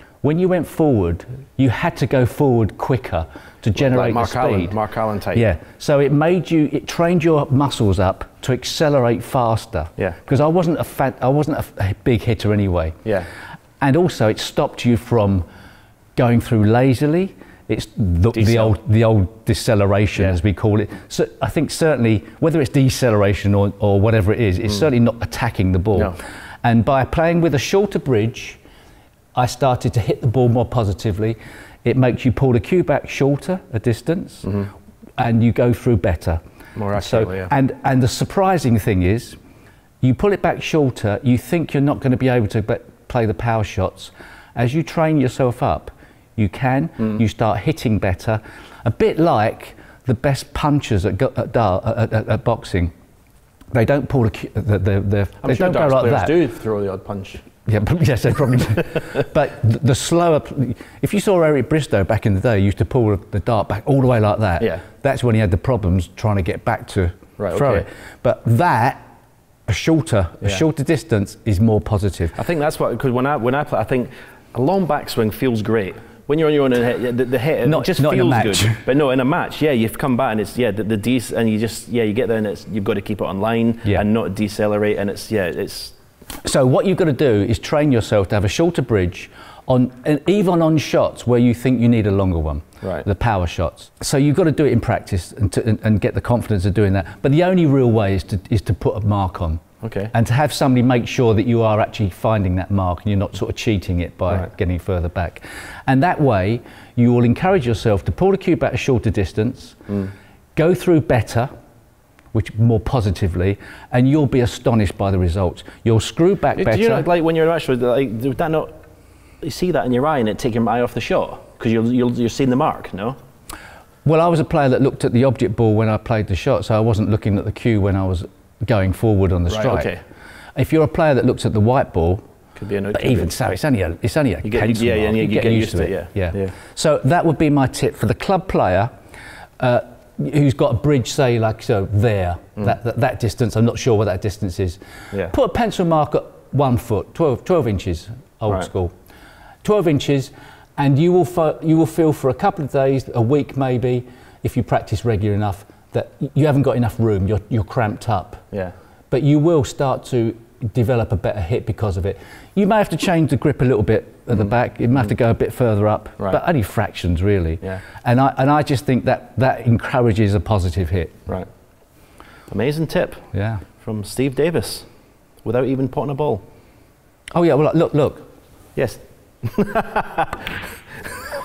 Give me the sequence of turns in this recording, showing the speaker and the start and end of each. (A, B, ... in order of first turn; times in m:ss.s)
0:00.2-0:04.8 A
0:03.7-0:05.5 B
0:05.3-0:13.1 A
0:13.0-0:13.3 B
0:13.8-0:15.4 A
0:16.2-0:28.6 A
0:18.3-0:18.7 B
0:29.3-0:34.6 A
0:34.4-0:34.7 B
0:35.2-0:36.4 A
0:36.7-0:37.5 B
0:36.9-0:39.4 A
0:40.0-0:52.9 A
0:53.7-0:56.4 A
0:55.4-0:57.4 B
0:57.6-1:09.0 A
1:04.6-1:04.8 B
1:07.4-1:07.8 B
1:09.7-1:12.4 A
1:12.3-1:25.9 B
1:17.6-1:18.8 A
1:26.4-1:49.8 A
1:32.8-1:33.1 B
1:39.8-1:40.1 B
1:50.6-1:51.5 A
1:52.3-1:57.1 A
1:56.6-1:58.7 B
1:59.4-2:03.2 B
2:04.0-2:10.0 A
2:09.5-2:10.0 B
2:10.6-2:12.2 A
2:12.6-2:13.3 B
2:12.9-2:18.9 A
2:14.4-2:16.5 B
2:19.6-2:28.9 A
2:29.6-2:38.4 A
2:39.1-2:51.2 A
2:52.5-2:54.9 B
2:53.3-2:53.6 A
2:55.4-2:56.4 B
2:57.3-2:58.2 A
2:58.8-3:01.1 B